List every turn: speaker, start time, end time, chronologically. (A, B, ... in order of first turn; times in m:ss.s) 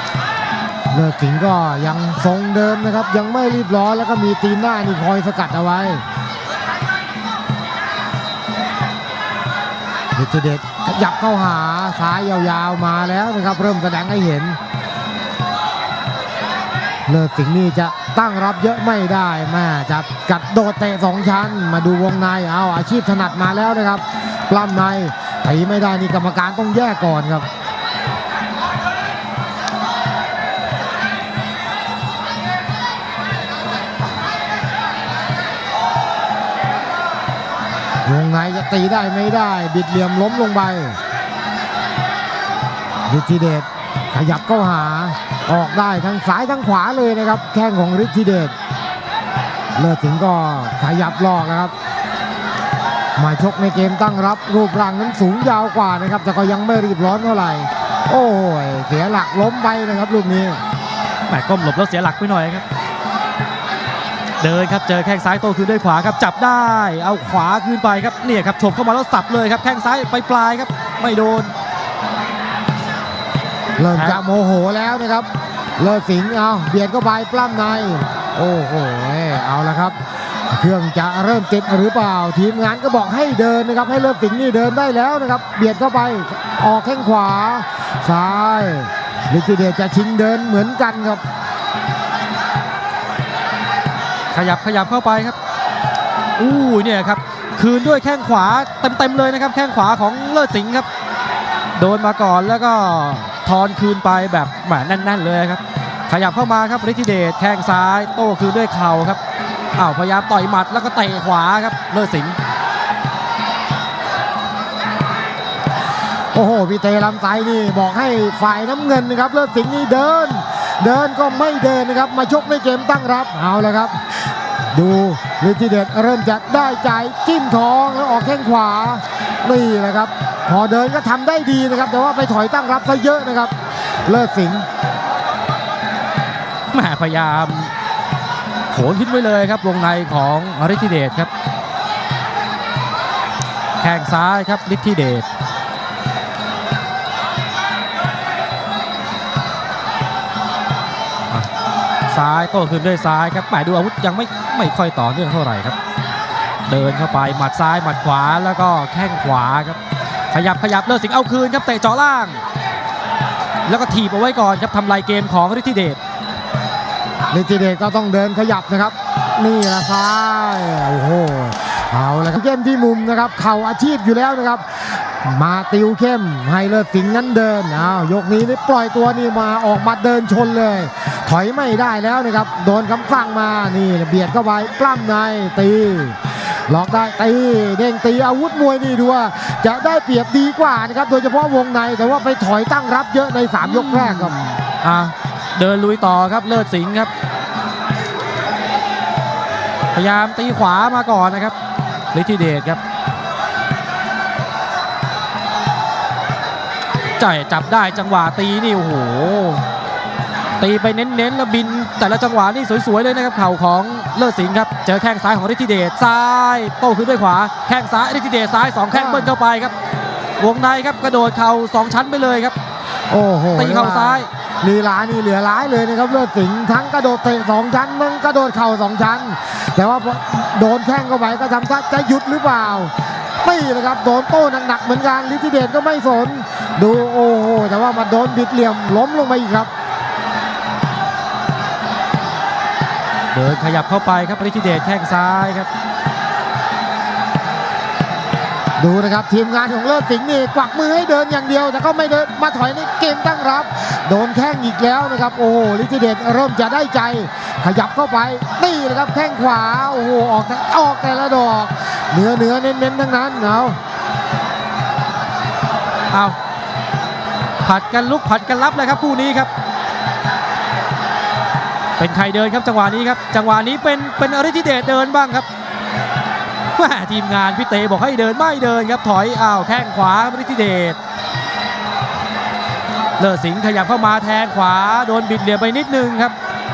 0:00.9-0:06.0 A
0:10.2-0:14.6 A
0:17.1-0:27.5 A
0:38.0-0:41.0 A
0:43.1-0:48.6 A
0:49.8-0:51.7 A
0:53.2-1:00.6 A
1:01.3-1:02.6 B
1:04.4-1:11.5 B
1:13.8-1:20.0 A
1:13.9-1:14.2 B
1:20.5-1:31.2 A
1:34.3-1:35.4 B
1:36.4-1:40.9 B
1:41.8-1:49.2 B
1:49.8-1:52.4 B
1:56.3-2:04.2 A
2:04.7-2:13.5 A
2:14.1-2:14.7 A
2:16.7-2:17.7 B
2:18.7-2:21.3 B
2:23.8-2:25.3 B
2:32.1-2:35.8 B
2:36.7-2:39.8 B
2:40.3-2:42.4 B
2:43.7-2:46.0 B
2:47.3-3:14.4 A
3:13.6-3:17.1 B
3:19.9-3:21.6 B
3:22.1-3:22.8 B
3:27.2-3:29.6 B
3:30.6-3:39.7 B
3:38.9-3:39.3 A
3:40.4-3:42.6 B
3:43.1-3:59.7 A
3:43.5-3:44.3 B
4:03.3-4:05.7 B
4:08.8-4:23.8 A
4:27.6-4:29.5 B
4:32.0-4:35.5 B
4:36.8-4:41.0 B
4:43.2-4:46.4 B